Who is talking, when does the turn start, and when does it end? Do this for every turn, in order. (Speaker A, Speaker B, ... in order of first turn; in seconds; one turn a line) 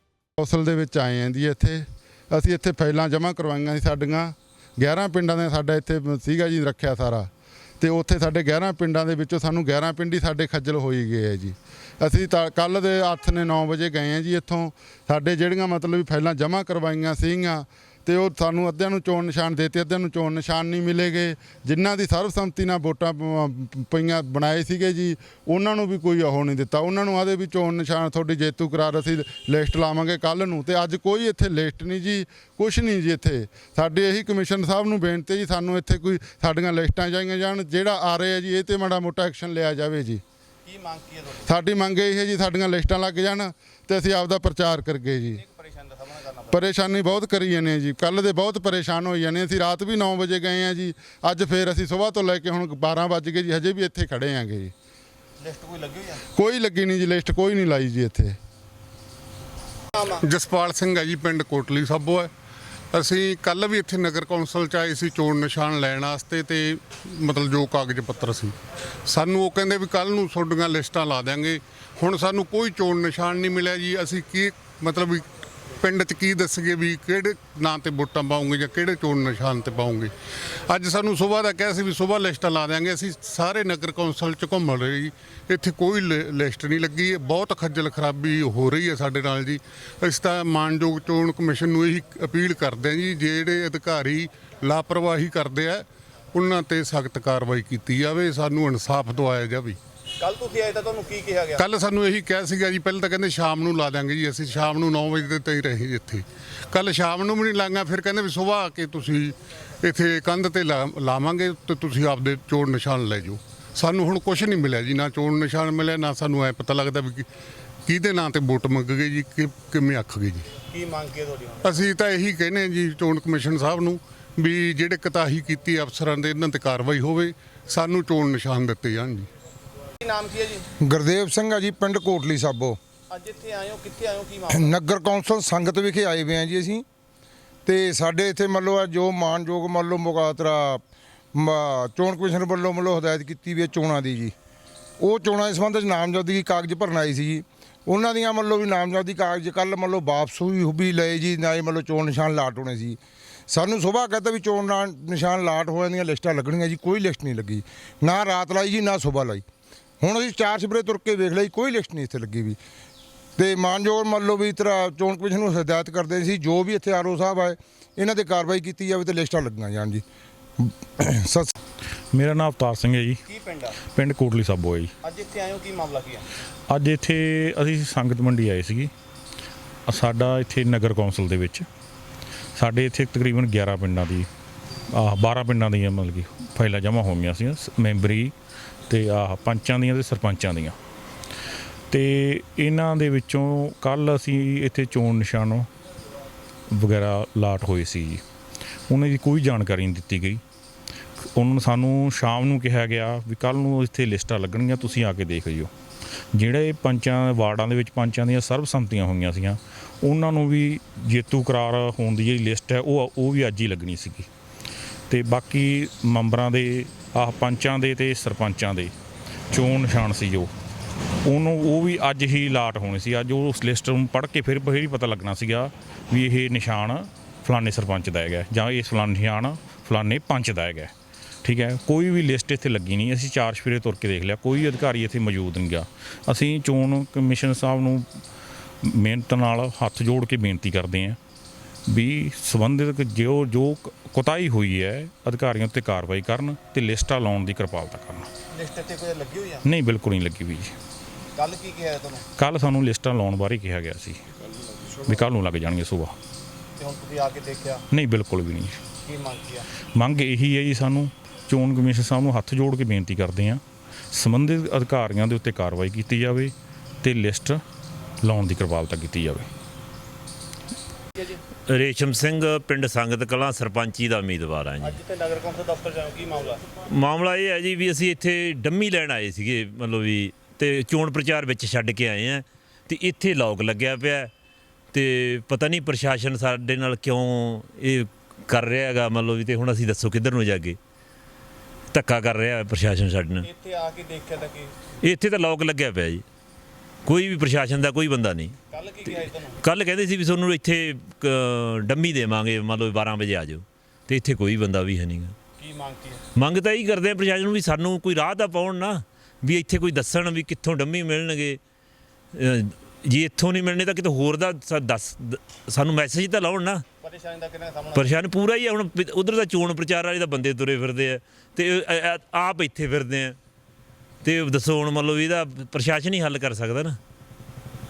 Speaker A: 0.4-40.2
Speaker B: 40.7-41.5
Speaker A: 41.5-45.4
Speaker B: 45.4-46.5
Speaker A: 46.5-54.7
Speaker B: 55.4-56.2
Speaker A: 56.3-58.4
Speaker C: 60.2-62.3
Speaker C: 62.9-68.5
Speaker C: 69.1-75.2
Speaker C: 75.8-80.1
Speaker C: 80.7-99.8
Speaker B: 100.2-101.6
Speaker C: 101.6-117.3
Speaker C: 117.9-120.5
Speaker B: 120.7-121.6
Speaker C: 121.6-129.3
Speaker B: 130.0-130.6
Speaker D: 130.8-132.8
Speaker B: 133.1-134.5
Speaker D: 134.5-136.8
Speaker D: 137.7-140.8
Speaker D: 141.3-144.3
Speaker D: 145.0-159.4
Speaker D: 160.0-162.6
Speaker D: 163.4-170.0
Speaker D: 170.6-171.5
Speaker E: 172.1-173.2
Speaker B: 173.3-173.8
Speaker E: 173.9-174.9
Speaker B: 175.0-176.2
Speaker E: 176.7-178.9
Speaker E: 179.9-181.7
Speaker E: 182.6-184.3
Speaker E: 184.9-188.3
Speaker E: 188.9-190.8
Speaker E: 191.9-195.7
Speaker E: 196.7-198.2
Speaker E: 198.9-200.4
Speaker E: 201.2-205.7
Speaker E: 206.3-214.3
Speaker E: 215.1-218.9
Speaker E: 219.5-220.5
Speaker E: 221.2-230.9
Speaker E: 231.4-238.1
Speaker E: 238.8-241.2
Speaker E: 241.9-248.3
Speaker B: 248.6-249.6
Speaker E: 249.6-250.8
Speaker B: 251.3-252.2
Speaker E: 252.4-254.2
Speaker E: 255.1-256.2
Speaker B: 256.8-257.8
Speaker E: 257.9-258.8
Speaker B: 259.0-259.6
Speaker E: 260.0-263.6
Speaker E: 264.1-267.6
Speaker E: 268.2-269.5
Speaker F: 271.7-275.0
Speaker B: 274.9-276.6
Speaker F: 276.9-284.3
Speaker F: 284.9-290.8
Speaker F: 291.9-293.5
Speaker B: 293.4-294.7
Speaker F: 295.0-296.2
Speaker F: 297.1-305.4
Speaker B: 298.7-299.6
Speaker B: 305.6-306.2
Speaker F: 306.4-311.6
Speaker F: 312.3-316.8
Speaker B: 317.0-318.0
Speaker F: 317.9-323.4
Speaker F: 324.2-327.0